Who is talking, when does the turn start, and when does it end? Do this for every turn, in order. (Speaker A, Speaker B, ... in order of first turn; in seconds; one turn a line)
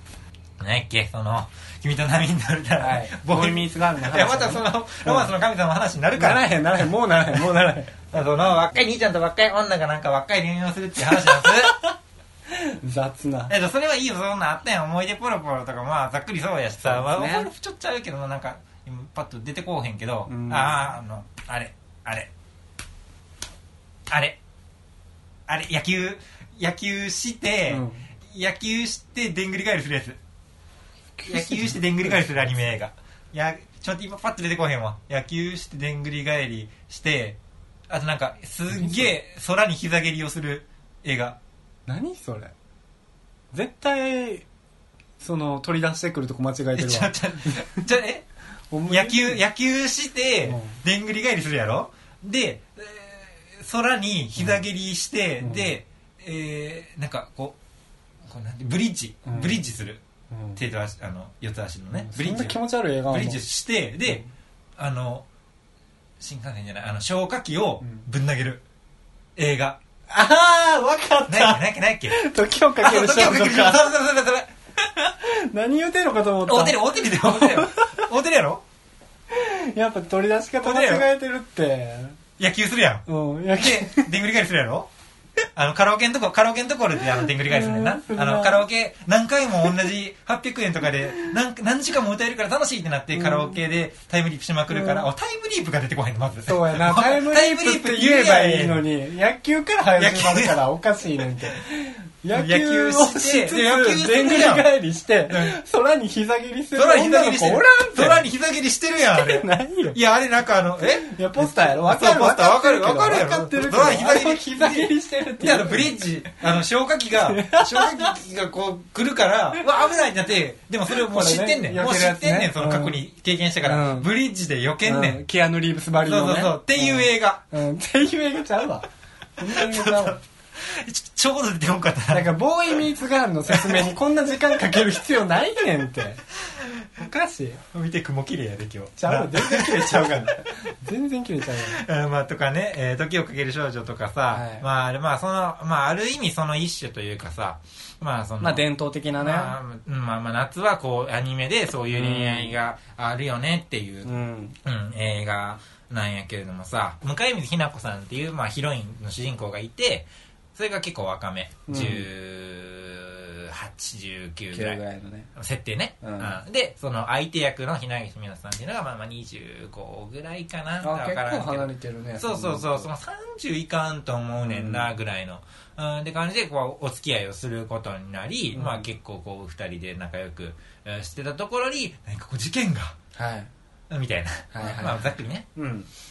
Speaker A: 0.6-6.5
Speaker B: 2.8-5.3
Speaker B: 6.1-8.0
Speaker A: 8.1-11.8
Speaker B: 11.1-12.0
Speaker B: 12.5-13.5
Speaker A: 13.5-22.3
Speaker B: 16.8-17.5
Speaker B: 20.3-20.9
Speaker A: 24.1-24.4
Speaker A: 25.5-30.2
Speaker B: 27.7-28.1
Speaker B: 31.2-32.3
Speaker A: 31.2-37.4
Speaker A: 37.9-41.4
Speaker B: 38.7-39.1
Speaker B: 41.9-42.5
Speaker B: 43.5-44.5
Speaker B: 45.2-47.9
Speaker A: 46.8-48.2
Speaker B: 48.7-49.4
Speaker A: 48.9-57.6
Speaker B: 50.5-50.8
Speaker B: 55.4-55.8
Speaker A: 58.2-60.0
Speaker B: 59.2-59.5
Speaker B: 60.3-60.6
Speaker A: 60.6-64.2
Speaker B: 61.9-63.4
Speaker A: 64.8-65.2
Speaker A: 66.2-68.6
Speaker A: 69.4-69.8
Speaker B: 70.1-73.9
Speaker A: 71.3-72.1
Speaker A: 72.8-74.5
Speaker B: 74.8-78.1
Speaker A: 76.4-78.6
Speaker B: 79.3-82.2
Speaker A: 80.6-81.1
Speaker A: 82.4-83.0
Speaker B: 83.1-84.1
Speaker A: 83.6-84.9
Speaker A: 85.5-98.8
Speaker B: 87.2-88.6
Speaker B: 93.2-93.6
Speaker B: 94.7-95.1
Speaker B: 96.5-108.2
Speaker A: 100.0-100.6
Speaker A: 102.3-104.7
Speaker A: 105.3-105.6
Speaker A: 106.7-125.2
Speaker B: 109.1-110.0
Speaker B: 110.8-116.0
Speaker B: 117.2-118.1
Speaker B: 120.9-123.0
Speaker B: 123.6-124.1
Speaker B: 124.8-128.9
Speaker A: 126.0-127.4
Speaker B: 129.4-130.2
Speaker A: 129.4-132.8
Speaker B: 132.1-136.2
Speaker A: 133.5-133.9
Speaker A: 134.5-134.8
Speaker A: 136.4-136.9
Speaker B: 137.0-137.6
Speaker A: 137.6-140.6
Speaker B: 139.0-141.8
Speaker A: 141.6-148.7
Speaker B: 144.3-144.6
Speaker B: 148.4-149.6
Speaker A: 149.2-164.8
Speaker B: 151.9-152.6
Speaker B: 154.1-154.6
Speaker B: 161.7-162.1
Speaker B: 164.5-165.3
Speaker A: 165.3-183.0
Speaker B: 166.0-166.4
Speaker B: 170.8-172.9
Speaker B: 174.4-174.9
Speaker B: 178.5-178.9
Speaker B: 183.1-183.5
Speaker A: 183.9-185.5
Speaker B: 184.5-185.9